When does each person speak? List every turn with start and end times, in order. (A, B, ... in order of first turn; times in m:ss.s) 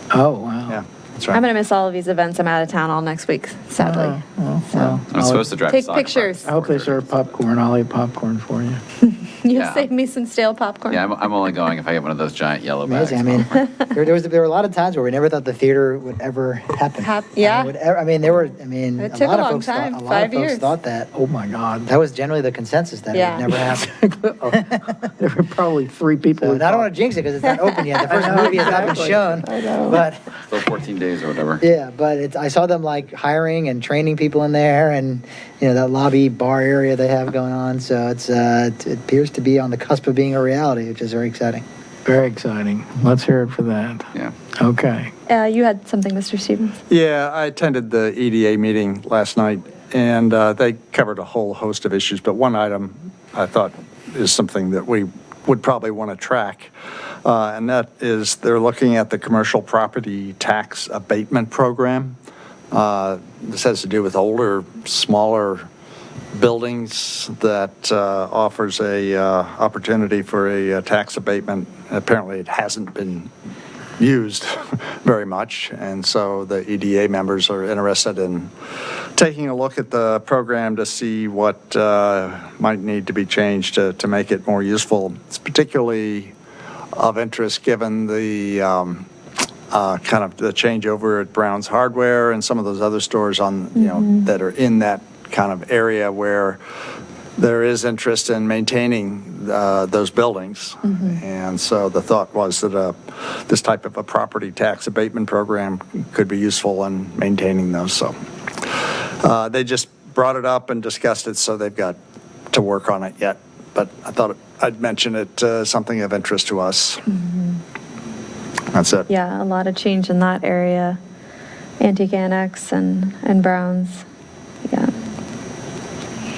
0:00.1-0:00.8 A
0:00.7-0:01.4 B
0:01.3-0:05.0 C
0:03.8-0:05.5 A
0:05.1-0:06.9 D
0:05.6-0:06.5 C
0:06.4-0:08.8 A
0:09.0-0:11.0 C
0:09.5-0:09.9 D
0:10.9-0:13.6 D
0:12.8-0:21.1 E
0:17.0-0:17.7 C
0:19.0-0:20.7 C
0:21.1-0:21.9 A
0:21.8-0:24.8 E
0:23.1-0:23.7 C
0:24.1-0:26.9 A
0:26.4-0:30.2 E
0:28.1-0:29.4 A
0:28.1-0:28.9 C
0:29.4-0:30.1 C
0:30.5-0:31.6 D
0:31.6-0:41.6 E
0:42.0-0:45.1 A
0:45.3-0:46.7 C
0:46.9-0:56.7 B
0:57.2-1:02.2 B
1:02.7-1:05.7 B
1:06.3-1:13.3 B
1:14.0-1:26.3 B
1:26.9-1:29.1 B
1:29.7-1:36.6 B
1:33.8-1:34.3 C
1:37.4-1:52.0 B
1:40.8-1:41.2 C
1:52.5-1:57.0 B
1:57.1-1:57.6 C
1:58.7-1:59.1 B
1:59.1-2:01.0 C
2:01.8-2:04.0 C
2:04.7-2:04.9 C